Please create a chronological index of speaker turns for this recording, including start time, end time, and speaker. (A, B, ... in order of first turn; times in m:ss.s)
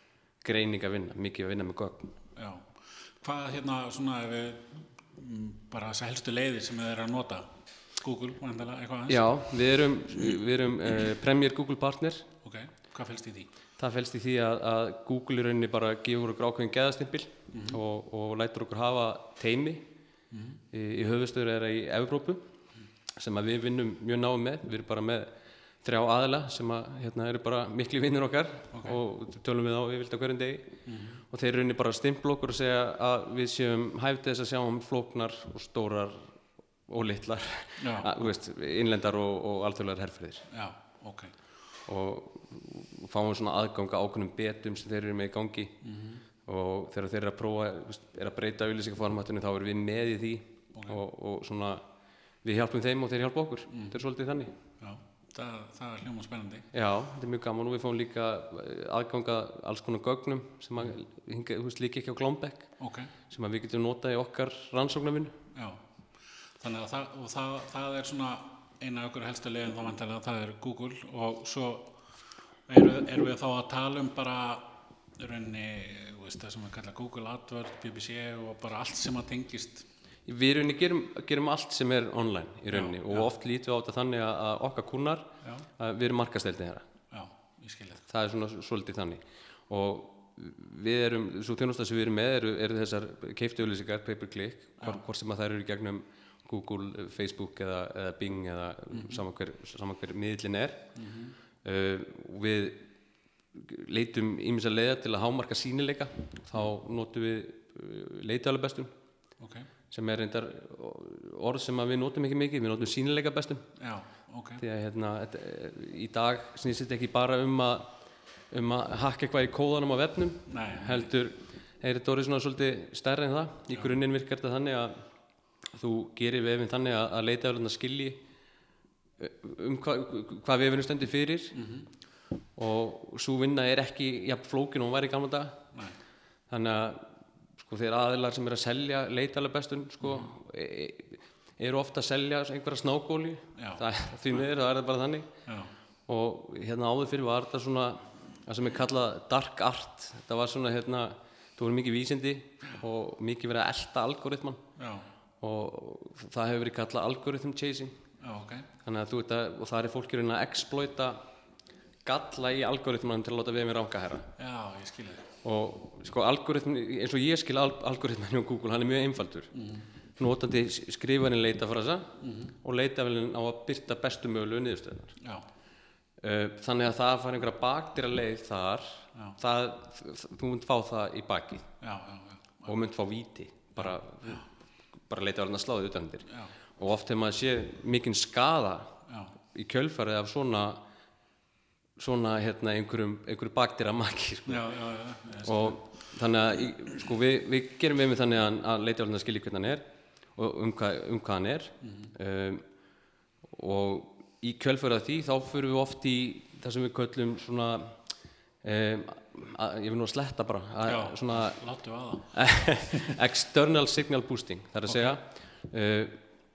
0:00.4-0:02.1 A
0:02.4-0:09.3 B
0:09.1-0:12.3 A
0:12.4-0:13.5 B
0:13.8-0:19.9 A
0:17.5-0:17.8 B
0:20.3-0:20.6 B
0:20.7-0:22.4 A
0:23.2-0:25.3 A
0:25.8-0:30.7 A
0:30.9-0:31.2 B
0:31.3-0:36.3 A
0:36.9-0:40.5 A
0:37.8-0:38.1 B
0:40.5-0:41.3 B
0:41.9-0:45.8 A
0:45.8-0:46.2 B
0:46.4-0:51.8 A
0:52.4-0:54.5 A
0:53.7-0:54.0 B
0:54.8-0:56.7 B
0:56.7-1:02.7 A
1:02.8-1:03.1 B
1:03.3-1:05.4 A
1:05.5-1:05.8 B
1:06.6-1:12.0 B
1:12.7-1:19.9 B
1:20.3-1:26.8 A
1:22.7-1:23.3 B
1:27.1-1:28.0 B
1:28.1-1:40.9 A
1:38.9-1:39.2 B
1:41.0-1:41.4 B
1:41.6-1:42.9 A
1:43.6-1:48.9 A
1:49.4-1:49.7 B
1:49.9-1:53.7 A
1:53.8-1:54.6 B
1:54.6-1:57.9 A
1:58.5-2:05.0 A
2:00.5-2:01.1 B
2:05.7-2:08.2 A
2:09.2-2:11.6 A
2:11.6-2:11.9 B
2:12.6-2:15.6 A
2:16.5-2:17.1 A
2:17.6-2:25.3 A
2:20.0-2:20.3 B
2:23.6-2:23.9 B
2:25.5-2:25.7 B
2:26.1-2:34.6 A
2:34.8-2:35.1 B
2:35.4-2:38.0 A
2:38.2-2:38.7 B
2:38.8-2:41.2 A
2:42.0-2:44.3 A
2:44.4-2:45.3 B
2:45.4-2:49.5 A
2:49.5-2:49.9 B
2:50.2-2:55.2 A
2:52.2-2:52.6 B
2:55.2-2:55.4 B
2:56.2-3:01.7 A
3:01.8-3:02.7 B
3:02.6-3:04.4 A
3:03.8-3:04.4 B
3:05.1-3:08.9 A
3:09.1-3:09.3 B
3:09.5-3:10.8 A
3:12.0-3:14.7 A
3:14.5-3:15.8 B
3:15.4-3:19.8 A
3:20.4-3:22.6 A
3:21.8-3:22.1 B
3:23.5-3:28.0 A
3:28.6-3:31.6 A
3:30.8-3:33.2 B
3:32.3-3:36.2 A
3:34.9-3:35.2 B